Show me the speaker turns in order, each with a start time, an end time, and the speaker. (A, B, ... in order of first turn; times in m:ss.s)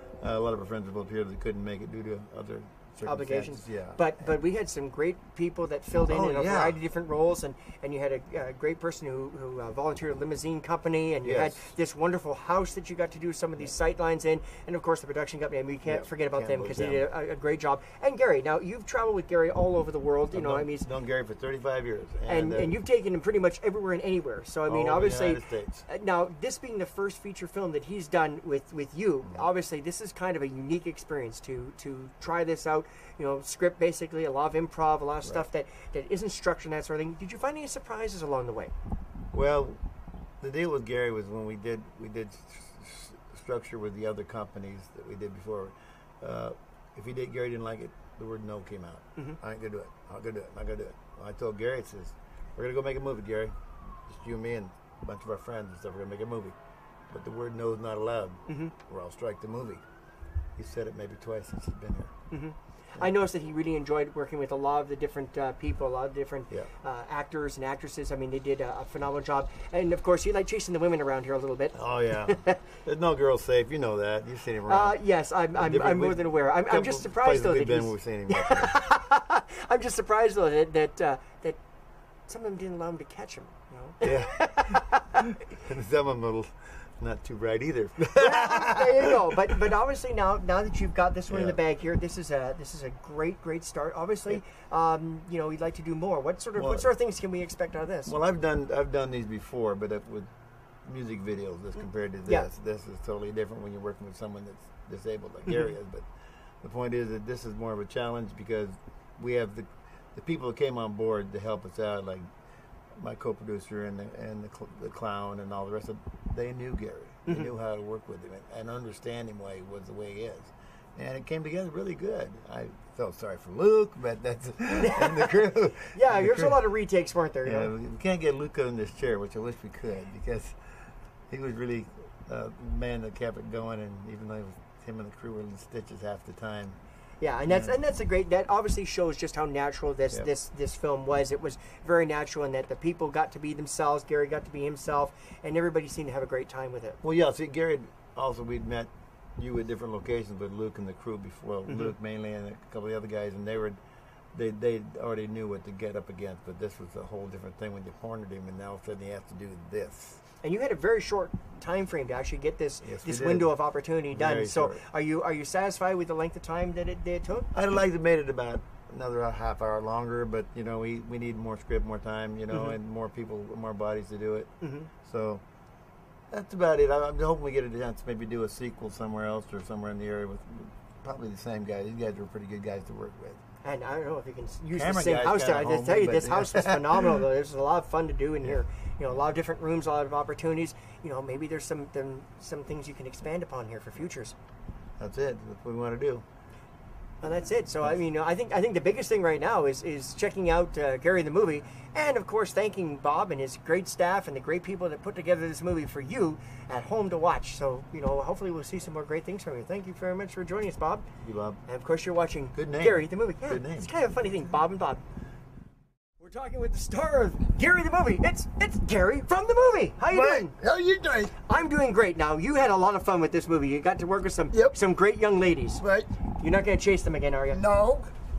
0:00.2-0:04.1 A
0:03.1-0:20.9 B
0:06.1-0:06.8 A
0:11.2-0:11.7 A
0:15.9-0:17.1 A
0:20.3-0:22.8 A
0:22.3-0:38.7 B
0:24.7-0:25.9 A
0:39.3-0:39.8 A
0:40.4-0:56.6 A
0:57.1-0:59.8 A
0:58.5-0:58.7 B
1:00.6-1:02.2 A
1:02.3-1:12.6 B
1:11.7-1:15.0 A
1:14.7-1:21.6 B
1:15.5-1:18.8 A
1:22.3-1:25.2 B
1:24.0-1:29.4 A
1:28.2-1:38.1 B
1:31.3-1:31.6 A
1:36.6-1:36.9 A
1:38.0-1:40.3 A
1:40.8-1:46.1 A
1:46.6-1:52.3 A
1:53.0-2:06.6 A
2:04.8-2:07.7 B
2:07.4-2:10.6 A
2:11.3-2:16.8 A
2:17.2-2:27.0 B
2:17.4-2:17.8 A
2:27.0-2:33.8 A
2:31.7-2:31.9 B
2:34.3-2:40.2 A
2:40.4-2:47.5 B
2:42.8-2:43.5 A
2:44.1-2:44.8 A
2:47.5-2:55.4 A
2:54.6-2:54.9 B
2:56.3-3:03.4 A
3:03.6-3:14.4 B
3:04.7-3:07.2 A
3:15.0-3:16.2 A
3:17.2-3:31.1 B
3:31.2-3:31.6 A
3:31.7-3:35.0 B
3:32.5-3:33.9 A
3:36.2-3:40.5 B
3:40.1-3:41.4 C
3:41.4-3:45.8 B
3:44.5-3:44.8 C
3:45.8-3:46.1 C
3:46.4-3:47.6 B
3:47.5-3:48.1 C